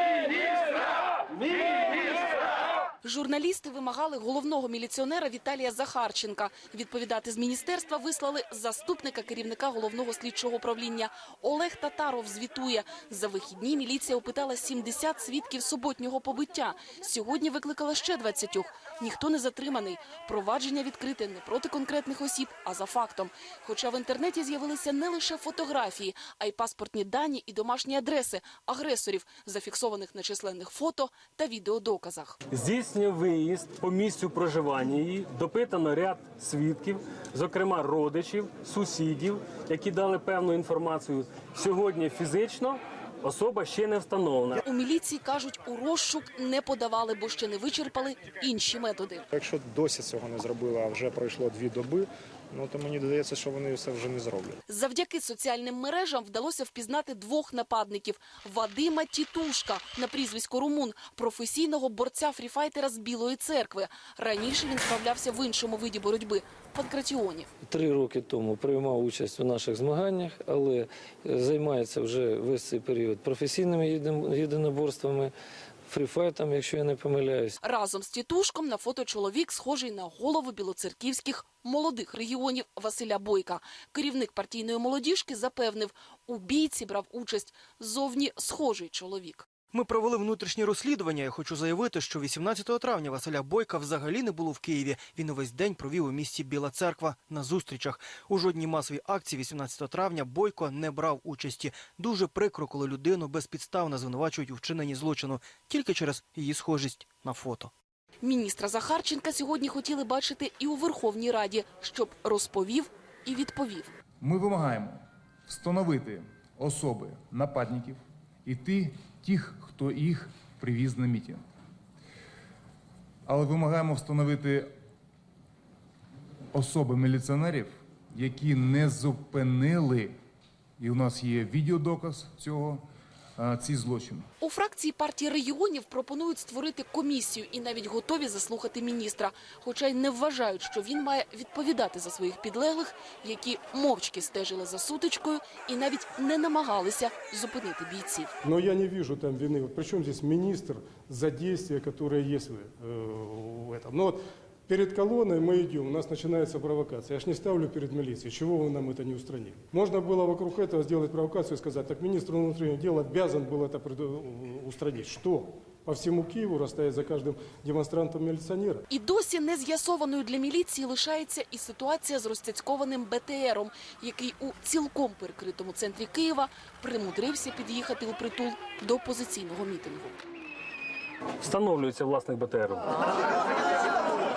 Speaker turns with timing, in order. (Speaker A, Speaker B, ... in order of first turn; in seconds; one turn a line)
Speaker A: 3.0-32.4
Speaker B: 32.5-44.6
Speaker A: 44.6-49.2
Speaker C: 49.3-54.6
Speaker A: 54.7-67.5
Speaker D: 67.6-75.3
Speaker D: 75.9-77.5
Speaker A: 77.6-89.5
Speaker E: 89.7-107.7
Speaker A: 108.2-113.9
Speaker F: 114.2-121.4
Speaker F: 123.2-124.7
Speaker F: 126.5-130.1
Speaker F: 130.8-132.8
Speaker F: 133.4-134.3
Speaker A: 134.4-148.3
Speaker G: 148.4-168.8
Speaker A: 168.9-180.2
Speaker B: 181.4-182.9